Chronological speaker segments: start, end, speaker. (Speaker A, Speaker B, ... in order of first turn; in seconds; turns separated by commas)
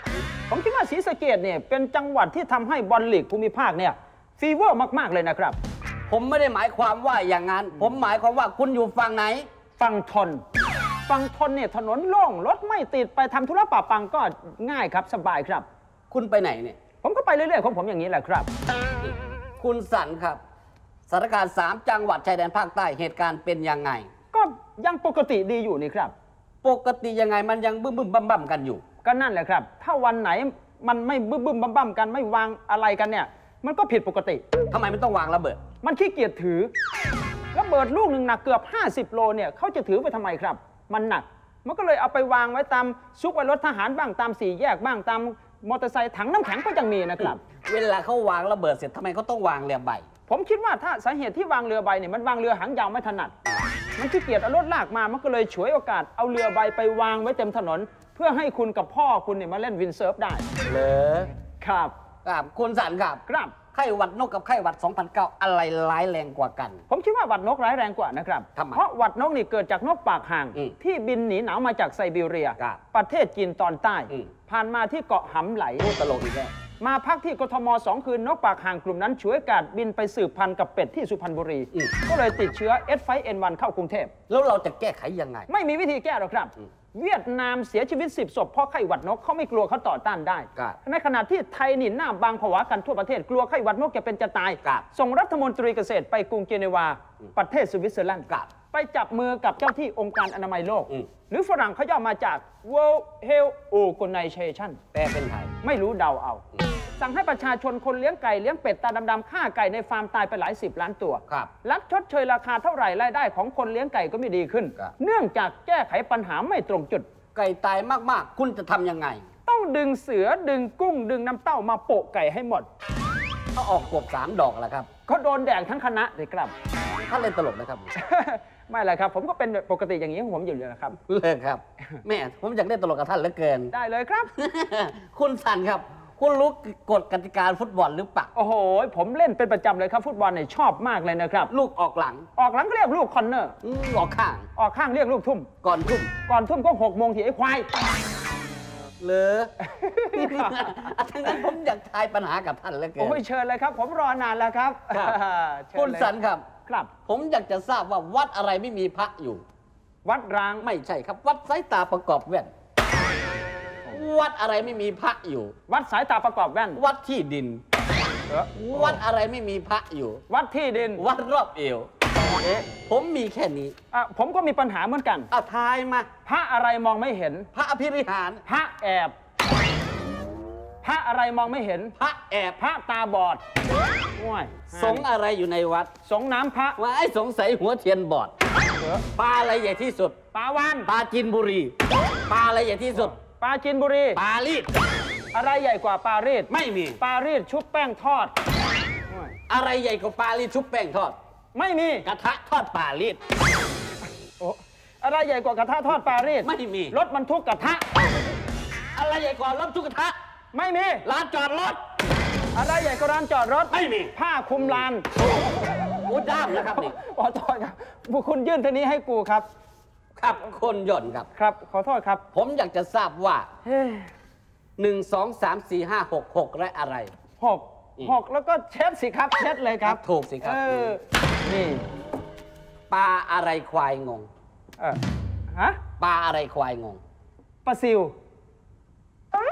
Speaker A: 0.5-5.6, Speaker B: 6.1-9.5, Speaker A: 9.8-10.4, Speaker A: 11.1-15.7, Speaker B: 16.1-16.8, Speaker A: 17.0-18.5, Speaker B: 19.6-20.4, Speaker B: 21.1-24.1, Speaker A: 24.3-26.1, Speaker B: 26.6-28.8, Speaker A: 29.0-34.4, Speaker B: 34.7-35.6, Speaker A: 35.8-36.7, Speaker A: 37.5-47.4, Speaker B: 47.6-50.0, Speaker A: 50.3-53.3, Speaker A: 54.0-60.5, Speaker B: 60.6-61.3, Speaker A: 61.6-61.9, Speaker B: 62.2-66.8, Speaker A: 63.3-63.5, Speaker A: 66.9-75.9, Speaker B: 68.5-68.8, Speaker B: 75.8-76.5, Speaker A: 76.8-84.1, Speaker B: 84.3-85.5, Speaker A: 85.5-104.8, Speaker B: 104.9-105.5, Speaker A: 105.6-106.5, Speaker A: 107.0-117.0, Speaker B: 117.3-119.2, Speaker A: 119.5-122.7, Speaker B: 123.5-124.9, Speaker A: 125.1-126.5, Speaker B: 127.0-127.9, Speaker A: 128.0-131.0, Speaker B: 131.0-133.7, Speaker A: 133.7-134.3, Speaker B: 134.3-138.3, Speaker A: 138.3-141.5, Speaker B: 141.5-142.3, Speaker A: 142.4-143.6, Speaker B: 143.6-144.5, Speaker A: 144.6-145.5, Speaker B: 145.6-146.1, Speaker A: 146.3-147.7, Speaker B: 149.0-149.5, Speaker A: 149.6-151.4, Speaker B: 150.1-153.2, Speaker A: 153.0-156.1, Speaker B: 154.9-155.2, Speaker B: 155.8-156.4, Speaker B: 157.1-159.4, Speaker A: 160.1-160.7, Speaker B: 160.6-162.5, Speaker B: 163.9-165.5, Speaker A: 165.7-166.8, Speaker B: 166.8-167.6, Speaker A: 168.3-169.0, Speaker B: 168.5-170.2, Speaker A: 170.3-171.1, Speaker B: 171.0-171.9, Speaker A: 172.4-172.7, Speaker B: 172.7-173.7, Speaker A: 173.9-175.3, Speaker B: 175.3-176.1, Speaker A: 176.3-177.5, Speaker B: 177.5-178.4, Speaker A: 178.5-179.1, Speaker A: 180.8-181.9, Speaker B: 182.0-182.6, Speaker A: 182.6-183.4, Speaker A: 184.2-185.1, Speaker B: 184.7-185.9, Speaker A: 186.1-186.8, Speaker B: 186.8-188.3, Speaker A: 188.8-189.0, Speaker B: 189.1-190.2, Speaker A: 190.3-190.9, Speaker B: 190.8-191.7, Speaker B: 192.3-193.2, Speaker A: 193.0-194.2, Speaker B: 194.2-194.7, Speaker A: 195.3-198.3, Speaker B: 196.5-197.0, Speaker A: 199.1-199.3, Speaker B: 199.5-201.2, Speaker A: 201.5-202.1, Speaker B: 202.1-203.2, Speaker A: 204.4-208.1, Speaker B: 206.4-207.0, Speaker B: 208.9-210.2, Speaker A: 210.5-211.1, Speaker B: 211.1-211.8, Speaker A: 212.5-215.5, Speaker B: 213.7-214.8, Speaker B: 216.0-217.0, Speaker A: 216.5-219.5, Speaker B: 220.2-221.3, Speaker A: 221.3-222.2, Speaker B: 222.3-223.5, Speaker A: 223.7-224.1, Speaker B: 224.8-227.1, Speaker A: 227.4-231.9, Speaker B: 229.8-230.9, Speaker B: 232.9-234.3, Speaker A: 235.5-235.8, Speaker B: 236.0-237.0, Speaker A: 237.7-238.1